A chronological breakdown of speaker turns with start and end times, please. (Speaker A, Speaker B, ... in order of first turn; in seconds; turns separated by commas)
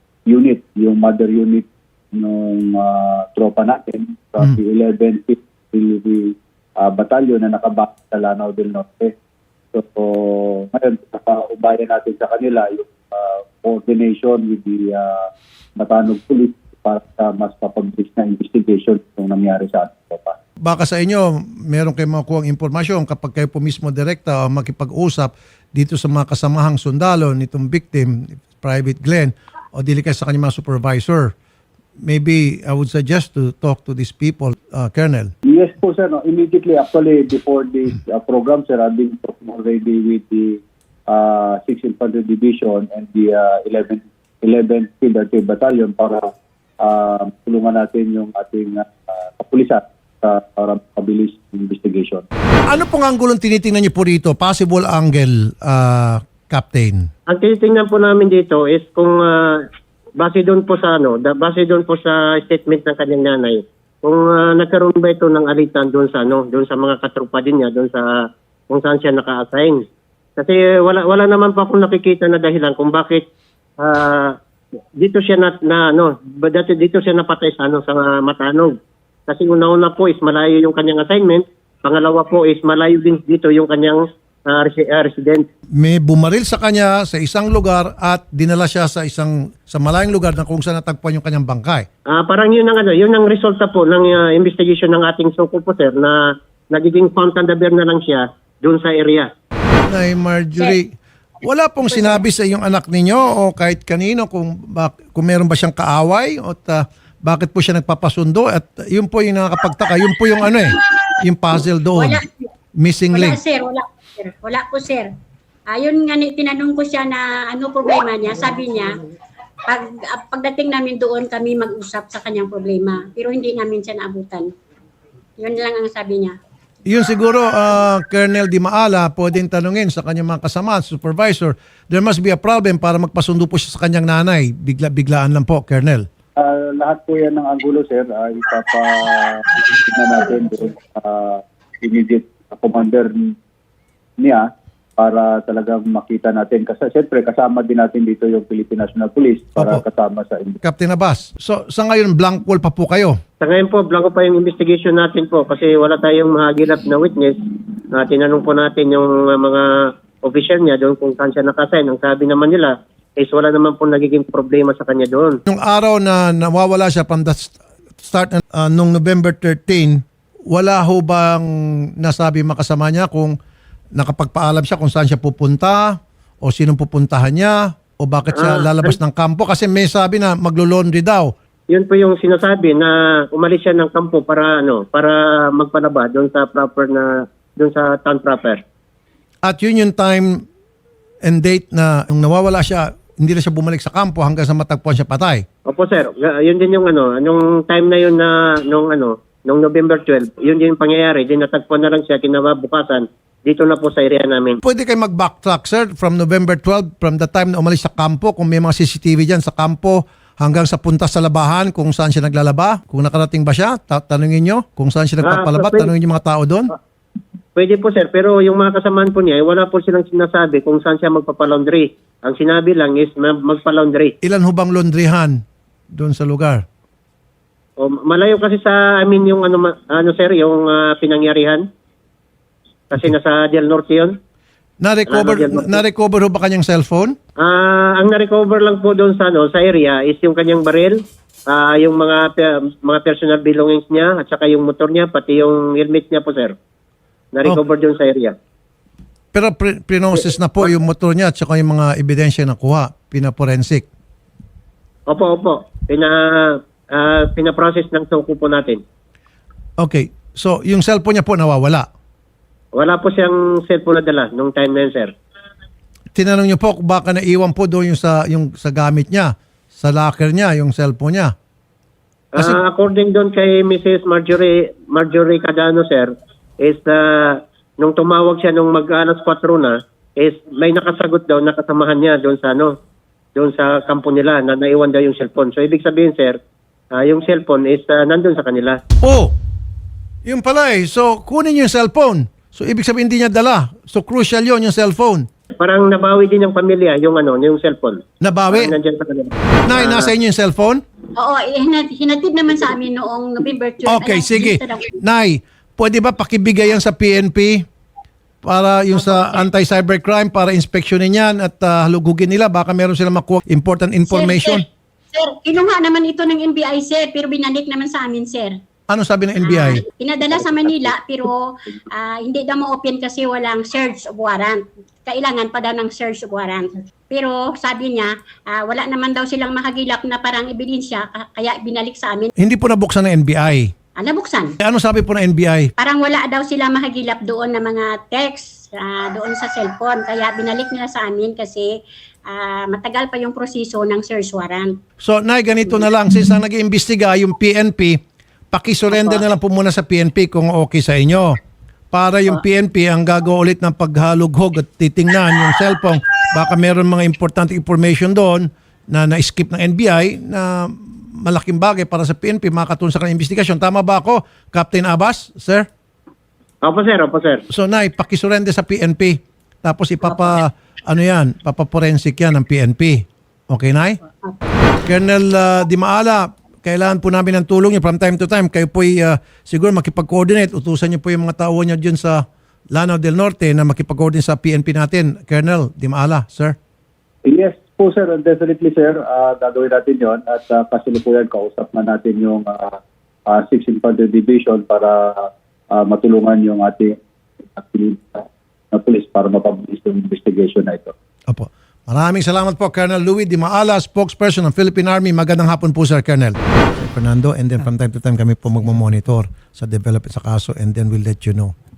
Speaker A: 0.3-9.1, Speaker A: 9.7-20.4, Speaker B: 20.6-31.3, Speaker B: 32.0-35.3, Speaker A: 35.5-46.3, Speaker A: 46.8-52.2, Speaker B: 52.7-57.1, Speaker C: 57.3-59.6, Speaker C: 60.2-68.1, Speaker C: 68.7-69.8, Speaker C: 70.4-73.3, Speaker C: 73.8-74.4, Speaker C: 75.0-78.8, Speaker C: 79.3-85.5, Speaker B: 85.8-91.9, Speaker C: 92.1-96.2, Speaker C: 96.7-99.3, Speaker B: 99.9-100.9, Speaker B: 101.4-112.2, Speaker D: 112.0-112.5, Speaker B: 112.8-113.4, Speaker D: 113.1-115.1, Speaker D: 115.7-118.9, Speaker D: 119.7-124.5, Speaker D: 125.4-126.3, Speaker B: 126.9-136.1, Speaker A: 136.4-143.3, Speaker A: 144.2-150.6, Speaker B: 150.6-153.2, Speaker C: 153.4-159.7, Speaker C: 160.2-165.4, Speaker B: 165.5-173.4, Speaker B: 174.0-181.3, Speaker C: 178.3-179.0, Speaker C: 181.7-188.6, Speaker B: 189.4-190.4, Speaker B: 191.2-195.4, Speaker C: 195.7-204.6, Speaker B: 204.6-216.7, Speaker C: 215.2-215.9, Speaker C: 217.6-224.1, Speaker B: 224.2-226.7, Speaker C: 227.8-231.7, Speaker C: 232.9-234.2, Speaker B: 234.8-237.2, Speaker C: 235.1-235.8, Speaker C: 237.4-246.6, Speaker C: 247.3-248.3, Speaker B: 249.3-253.9, Speaker C: 250.2-250.7, Speaker C: 255.1-258.8, Speaker B: 259.8-261.9, Speaker C: 262.8-265.1, Speaker B: 266.1-271.3, Speaker C: 272.4-282.8, Speaker C: 283.4-286.4, Speaker C: 286.9-288.8, Speaker B: 289.0-289.4, Speaker B: 290.2-295.3, Speaker C: 295.6-300.1, Speaker B: 298.2-298.8, Speaker B: 299.7-300.8, Speaker D: 301.2-304.9, Speaker B: 303.9-307.6, Speaker B: 308.4-314.6, Speaker D: 314.1-318.6, Speaker B: 318.9-319.9, Speaker D: 319.4-332.3, Speaker B: 332.4-333.7, Speaker D: 334.0-334.5, Speaker B: 334.6-335.7, Speaker D: 335.8-341.7, Speaker D: 342.3-344.7, Speaker B: 345.0-348.0, Speaker B: 348.5-351.4, Speaker B: 351.9-365.7, Speaker C: 366.6-367.4, Speaker B: 367.5-374.0, Speaker D: 374.2-374.6, Speaker B: 374.9-386.6, Speaker A: 387.2-397.0, Speaker A: 397.6-400.9, Speaker B: 401.3-411.5